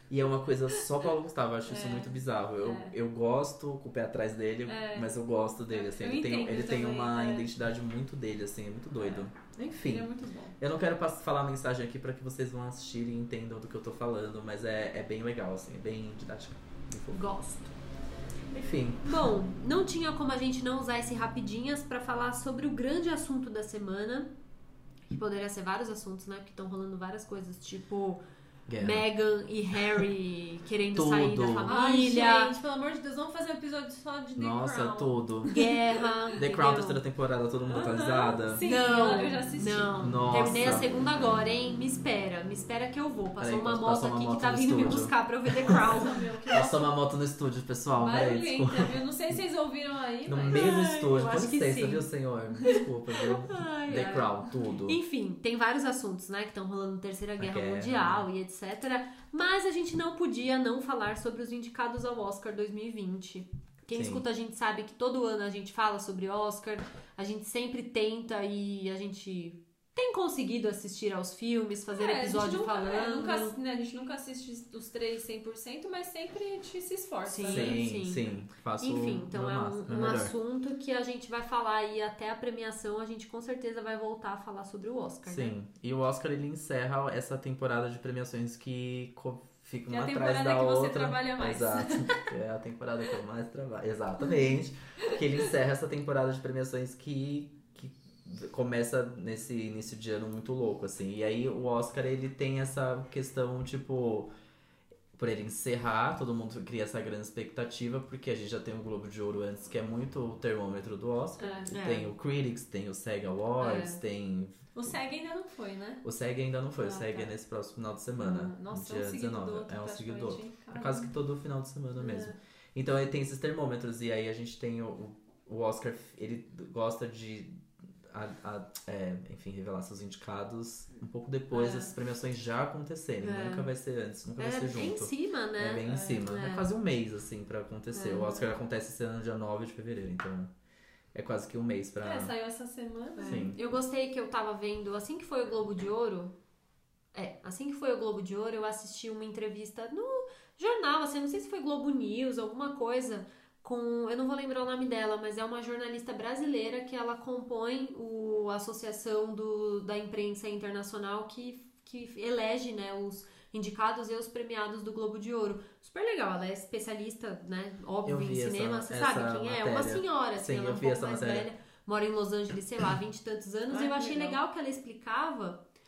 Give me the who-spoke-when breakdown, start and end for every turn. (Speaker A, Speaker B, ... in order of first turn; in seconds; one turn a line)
Speaker A: 0.1-17.2
Speaker B: 1.7-3.0
Speaker B: 4.7-5.1
Speaker B: 5.7-7.5
Speaker B: 9.8-10.6
Speaker C: 17.1-17.7
Speaker A: 18.5-19.3
Speaker C: 19.0-24.3
Speaker C: 25.1-28.2
Speaker A: 28.7-29.1
Speaker C: 28.8-32.5
Speaker A: 29.7-30.1
Speaker A: 30.9-31.7
Speaker B: 31.7-36.1
Speaker A: 34.4-35.5
Speaker C: 35.5-37.0
Speaker A: 36.4-38.6
Speaker B: 37.7-40.1
Speaker C: 38.6-46.2
Speaker A: 40.0-40.9
Speaker A: 43.4-49.4
Speaker B: 45.6-47.0
Speaker B: 48.0-50.7
Speaker A: 50.2-55.0
Speaker C: 50.5-52.1
Speaker C: 52.6-54.3
Speaker B: 53.9-54.3
Speaker C: 54.9-73.6
Speaker A: 57.4-58.3
Speaker A: 63.9-64.2
Speaker B: 71.9-77.8
Speaker C: 77.3-85.5
Speaker A: 77.5-80.3
Speaker A: 85.3-104.3
Speaker B: 89.9-92.3
Speaker A: 105.2-115.0
Speaker B: 111.4-111.7
Speaker C: 111.7-112.1
Speaker C: 113.6-114.0
Speaker B: 114.8-116.0
Speaker A: 116.0-127.5
Speaker B: 116.8-117.3
Speaker B: 118.2-121.1
Speaker B: 122.0-122.4
Speaker A: 128.1-140.5
Speaker B: 131.5-131.9
Speaker C: 133.2-133.7
Speaker C: 134.4-136.7
Speaker C: 137.9-138.6
Speaker A: 141.1-142.3
Speaker B: 142.0-143.5
Speaker C: 143.2-146.3
Speaker A: 143.2-143.6
Speaker C: 147.1-175.6
Speaker A: 168.1-171.5
Speaker B: 173.7-174.4